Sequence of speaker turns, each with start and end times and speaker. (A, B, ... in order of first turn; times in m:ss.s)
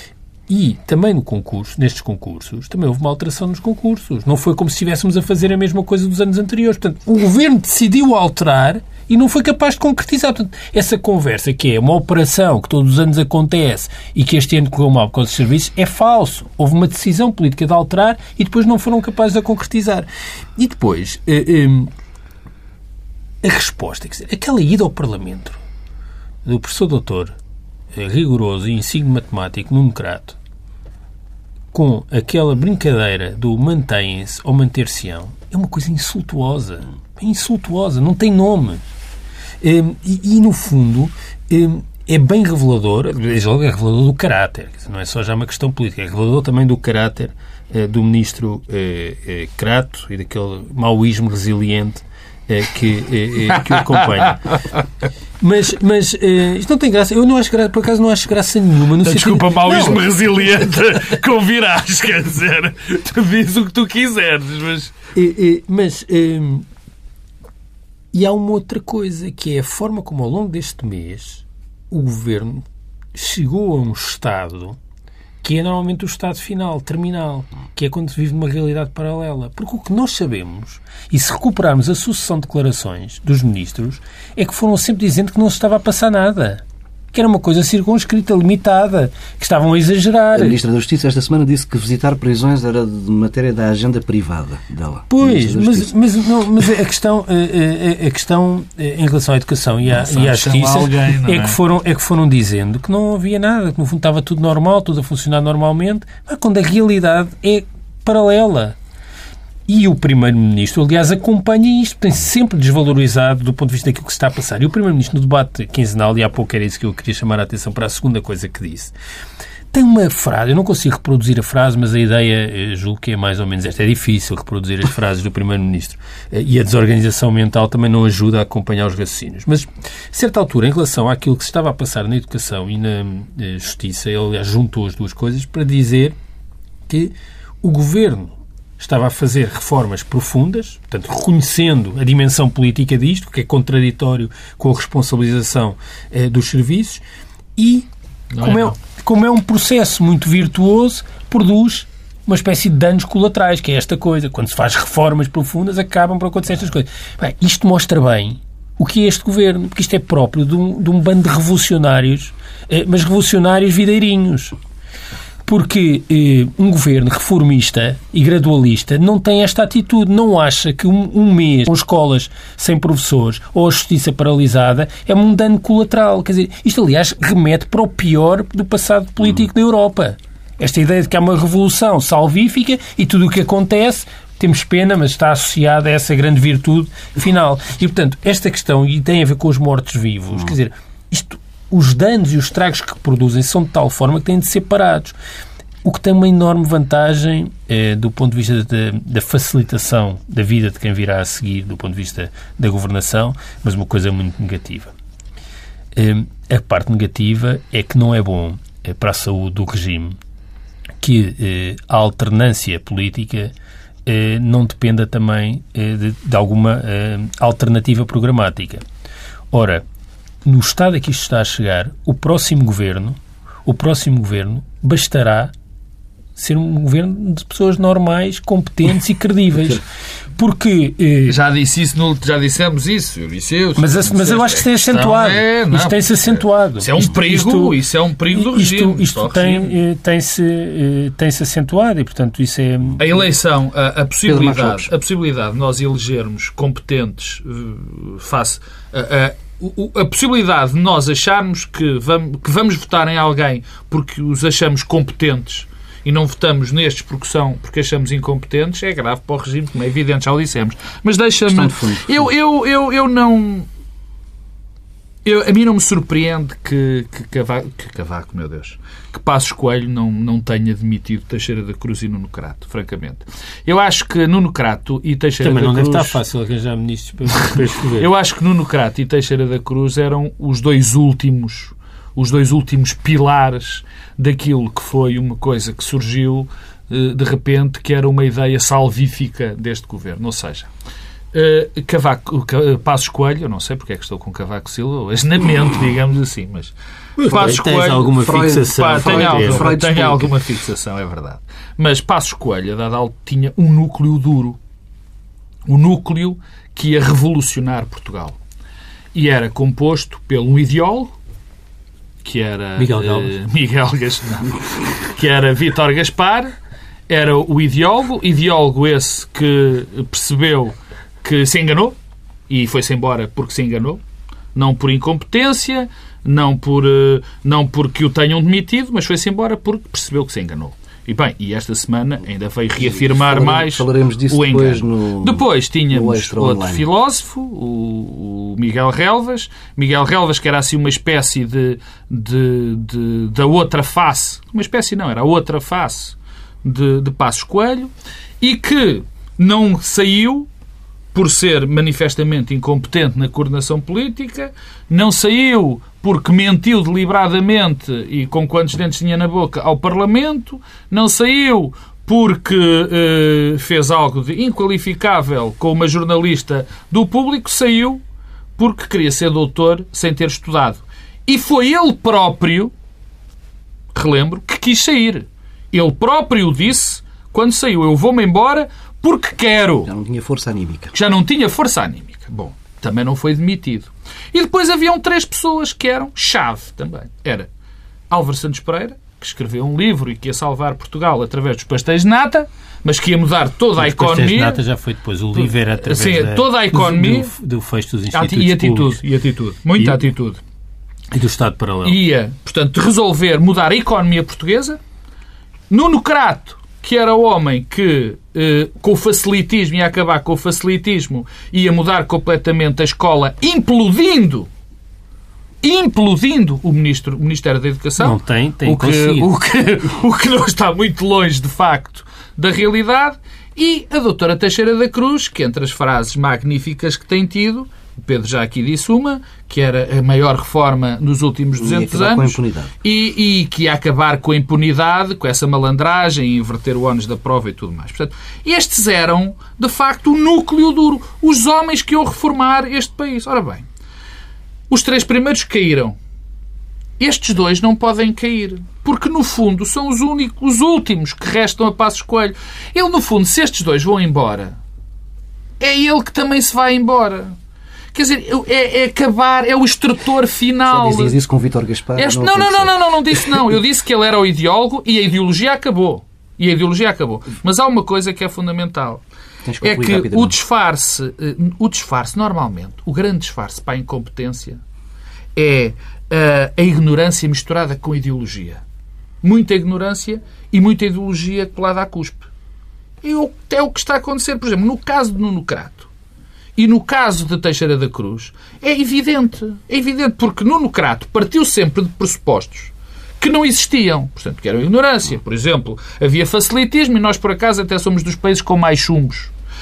0:00.5-0:21.9 A
0:23.4-0:25.6 A
0:26.4-0:27.4 A
0:27.9-0:30.4 A
0:31.7-0:38.8 A
0:39.6-0:54.4 A
0:53.5-0:54.8 B
0:55.4-1:00.0 A
0:59.0-1:05.0 B
1:05.1-1:06.6 A
1:08.1-1:14.8 A
1:15.4-1:26.6 A
1:27.1-1:30.6 A
1:30.3-1:35.9 C
1:35.1-1:48.8 A
1:39.9-1:41.6 B
1:49.7-1:58.9 A
1:59.7-2:16.2 A
2:16.9-2:27.0 A
2:27.6-2:27.9 A
2:28.3-2:28.7 B
2:28.4-2:44.5 A
2:45.4-3:15.1 A
3:15.8-3:24.9 A
3:25.9-3:30.2 A
3:31.0-3:33.5 A
3:34.0-3:38.8 A
3:39.5-3:39.8 A
3:40.4-3:45.5 A
3:46.4-3:49.8 A
3:50.4-3:51.4 A
3:51.2-3:59.7 B
3:53.8-3:57.8 A
3:58.3-4:03.2 A
4:03.0-4:23.7 B
4:04.2-4:04.9 C
4:21.5-4:22.3 C
4:25.2-4:36.2 B
4:35.4-4:38.1 A
4:37.3-4:50.7 B
4:51.3-5:04.6 B
4:57.2-4:59.8 A
4:57.3-5:00.3 C
5:05.6-5:08.4 B
5:09.1-5:11.1 B
5:12.2-5:16.5 B
5:12.8-5:13.3 A
5:17.1-5:22.0 B
5:22.5-5:24.0 B
5:24.5-5:50.5 B
5:32.8-5:36.8 C
5:51.1-6:08.0 B
6:08.6-6:12.7 B
6:13.9-6:19.9 B
6:19.8-6:20.9 C
6:20.9-6:27.5 B
6:28.1-6:34.6 B
6:33.8-6:39.0 A
6:35.3-6:37.3 B
6:38.1-6:40.4 B
6:41.1-6:42.0 A
6:41.8-6:44.8 B
6:45.7-6:54.5 B
6:55.6-7:23.6 B
6:58.0-6:59.3 A
7:11.6-7:12.7 C
7:24.7-7:26.0 B
7:27.0-7:34.6 B
7:35.6-7:37.4 B
7:37.9-7:41.1 B
7:40.7-7:43.4 C
7:42.0-7:49.0 B
7:49.4-7:50.3 C
7:49.6-7:54.6 B
7:55.3-7:58.6 B
7:59.2-8:02.3 B
8:03.0-8:05.9 B
8:06.6-8:19.3 B